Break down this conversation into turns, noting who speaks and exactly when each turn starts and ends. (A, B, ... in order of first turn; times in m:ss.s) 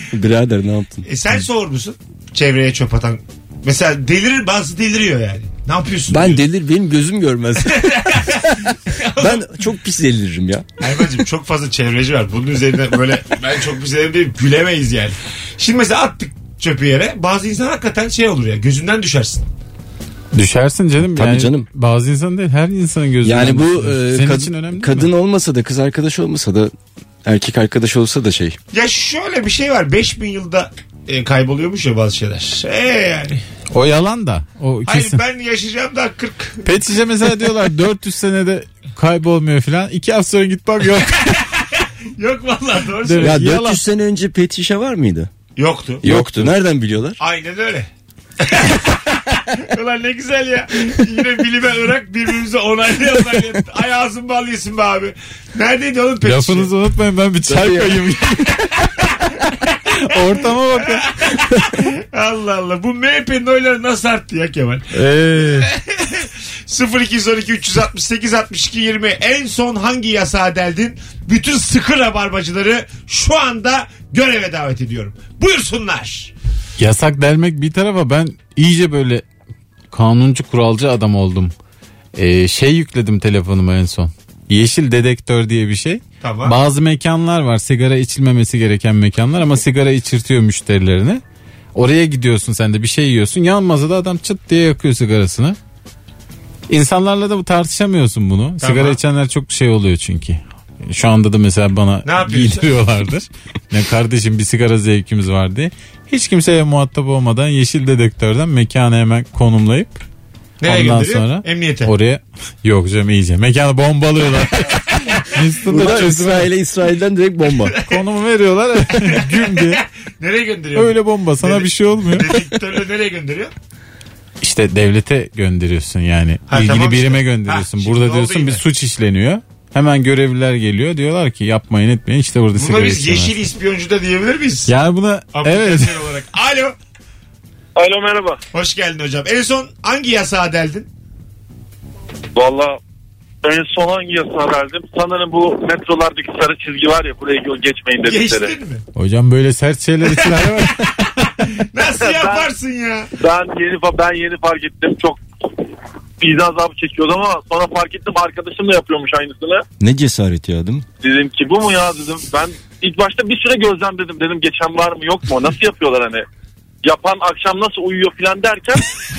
0:00.1-0:01.1 A
0:01.0-0:06.4 B
0:06.1-0:10.7 A
0:07.6-0:09.6 B
0:10.8-0:19.5 B
0:20.3-0:25.1 C
0:21.0-0:21.7 A
0:23.2-0:26.7 A
0:27.2-0:28.6 A
0:28.7-0:33.4 B
0:33.7-0:35.2 C
0:34.9-0:36.7 B
0:36.6-0:41.4 C
0:41.3-0:43.4 B
0:43.0-0:43.8 C
0:43.2-0:45.3 A
0:45.6-0:46.1 B
0:46.0-0:47.2 A
0:46.1-0:46.6 C
0:47.2-0:56.7 B
0:56.2-0:58.7 C
0:57.5-0:58.5 A
0:59.9-1:01.2 C
1:00.8-1:04.9 B
1:05.0-1:05.7 C
1:05.5-1:16.3 B
1:16.8-1:19.2 C
1:19.9-1:21.5 C
1:22.2-1:31.2 C
1:26.2-1:26.6 B
1:31.7-1:35.6 C
1:36.7-1:50.0 C
1:38.6-1:39.0 B
1:42.0-1:42.7 B
1:50.6-1:51.9 B
1:50.6-1:56.5 C
1:55.7-1:57.8 A
1:57.8-1:59.8 C
1:59.0-2:03.5 B
2:00.8-2:02.5 C
2:04.4-2:13.4 C
2:06.5-2:08.6 B
2:12.6-2:14.7 B
2:14.7-2:16.0 C
2:15.3-2:16.8 B
2:17.8-2:18.4 D
2:18.5-2:20.9 B
2:22.4-2:22.8 D
2:23.4-2:28.6 D
2:28.0-2:28.8 B
2:29.0-2:30.9 C
2:30.0-2:33.1 B
2:32.0-2:32.5 D
2:33.2-2:35.2 D
2:36.2-2:39.6 D
2:39.8-2:40.8 A
2:41.0-2:46.2 D
2:46.8-2:48.8 D